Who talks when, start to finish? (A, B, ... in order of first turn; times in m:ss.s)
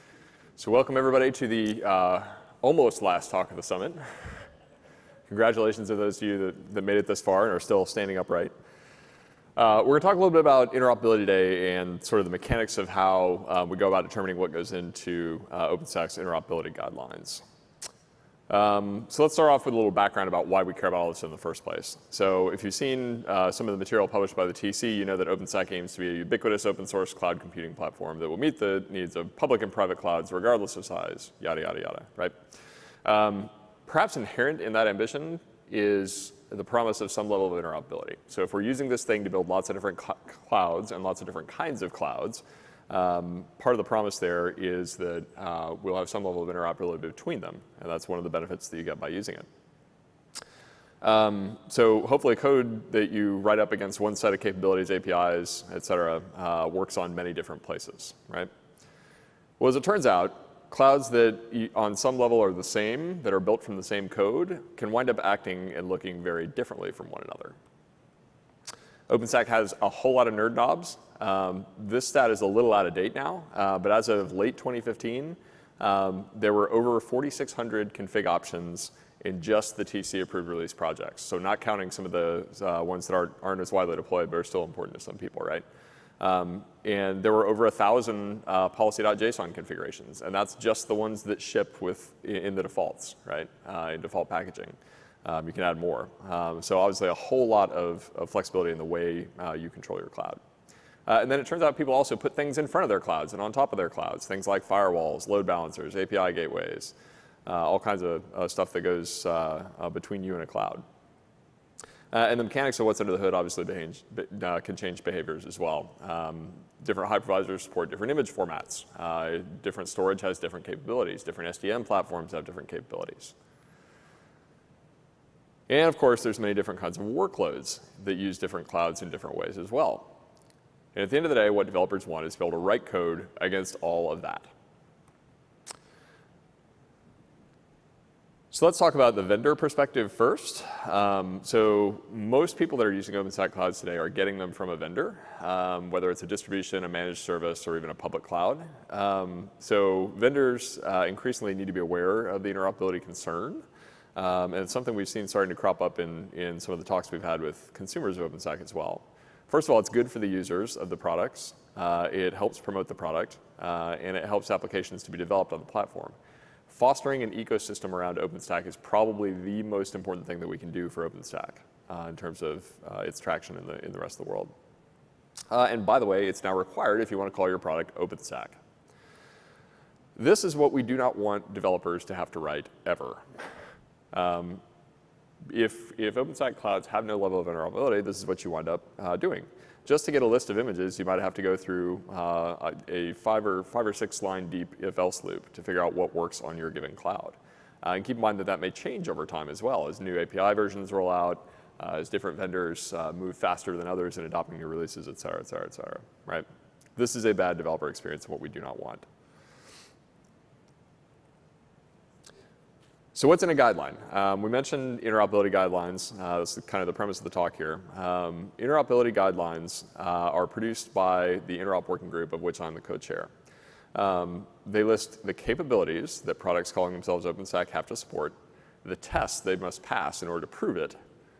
0:00.6-0:04.4 A
0:05.3-0:08.5 A
0:09.6-0:17.4 A
0:18.5-0:32.4 A
0:33.0-0:49.5 A
0:51.0-0:58.5 A
0:59.6-1:07.6 A
1:09.1-1:25.6 A
1:26.2-1:40.4 A
1:41.1-1:46.9 A
1:47.4-1:50.8 A
1:52.1-2:03.3 A
2:05.7-2:10.2 A
2:10.9-2:14.5 A
2:18.5-2:46.2 A
2:46.7-2:54.5 A
2:55.5-2:58.6 A
3:00.2-3:03.2 A
3:04.1-3:04.6 A
3:05.5-3:29.0 A
3:33.1-3:43.3 A
3:43.9-3:51.0 A